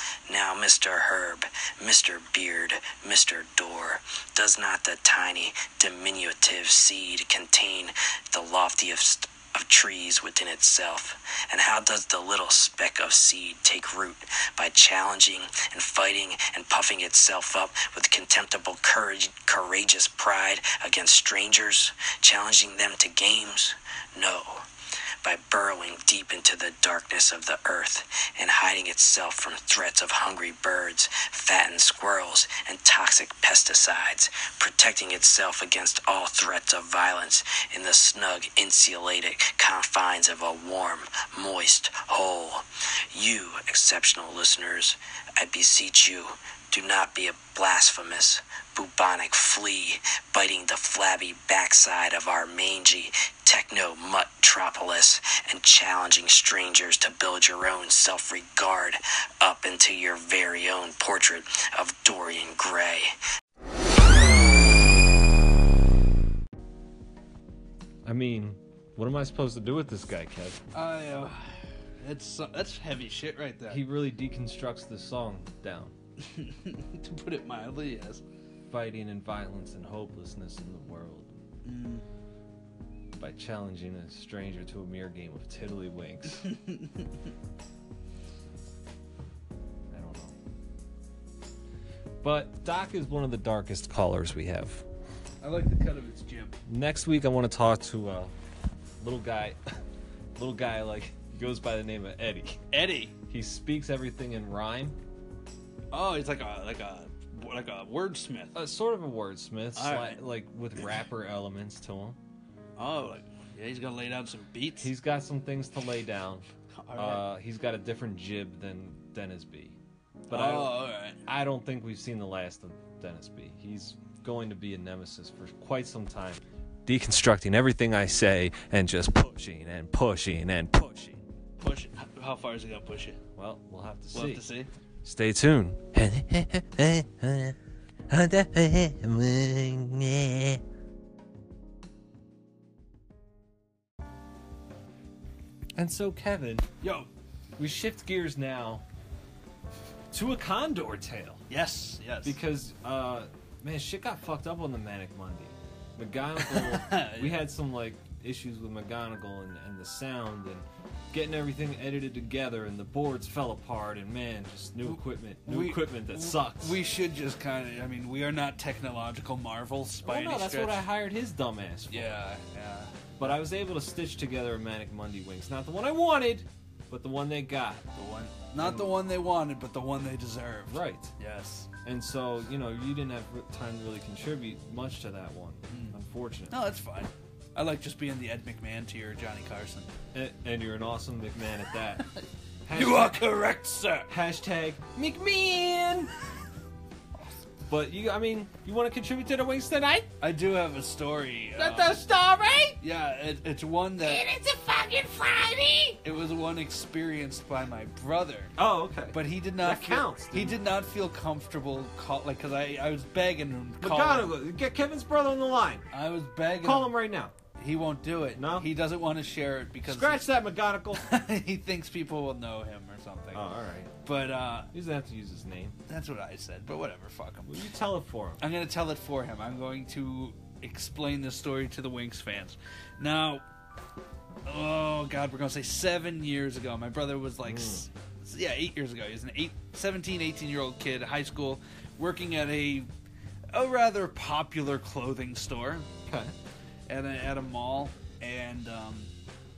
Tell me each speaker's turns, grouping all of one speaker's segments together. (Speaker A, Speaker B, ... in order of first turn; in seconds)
Speaker A: 0.3-24.7, 25.2-63.1
Speaker B: 68.0-70.6, 73.7-75.9, 78.7-81.3, 83.2-86.5, 89.9-90.3, 92.2-94.8, 96.7-98.3, 99.0-99.6, 100.3-102.6, 103.3-105.0, 108.5-112.2, 114.8-119.8, 120.3-131.2, 133.4-134.4, 135.0-137.6, 138.1-140.6, 145.8-146.7, 147.6-148.8, 150.1-151.4, 152.2-166.8, 170.0-172.2, 173.2-177.8, 178.6-178.9, 180.7-181.1, 181.8-186.6, 190.1-192.1, 192.7-193.3, 194.1-196.1, 197.7-200.1, 201.6-202.8, 204.1-206.0, 208.6-210.6, 213.8-215.9, 216.6-217.3, 218.4-218.7, 219.9-221.0, 223.3-223.9, 224.7-225.8, 227.5-228.4, 237.4-237.9, 246.1-246.3
Speaker C: 70.7-73.8, 76.2-78.2, 81.6-82.0, 86.5-87.1, 95.4-96.6, 102.7-103.1, 105.9-108.5, 109.8-110.2, 112.8-114.9, 116.8-117.2, 120.3-121.2, 131.6-133.2, 134.1-134.7, 146.8-147.1, 151.5-152.4, 156.4-157.4, 164.9-170.8, 171.9-173.0, 177.9-181.7, 185.7-186.0, 186.5-189.9, 192.1-194.1, 200.2-202.0, 202.8-204.3, 206.0-208.5, 209.1-214.3, 215.9-216.9, 217.6-220.3, 221.0-223.4, 224.0-224.7, 225.9-227.6, 228.4-233.4, 234.4-242.9, 243.5-245.9, 246.9-249.1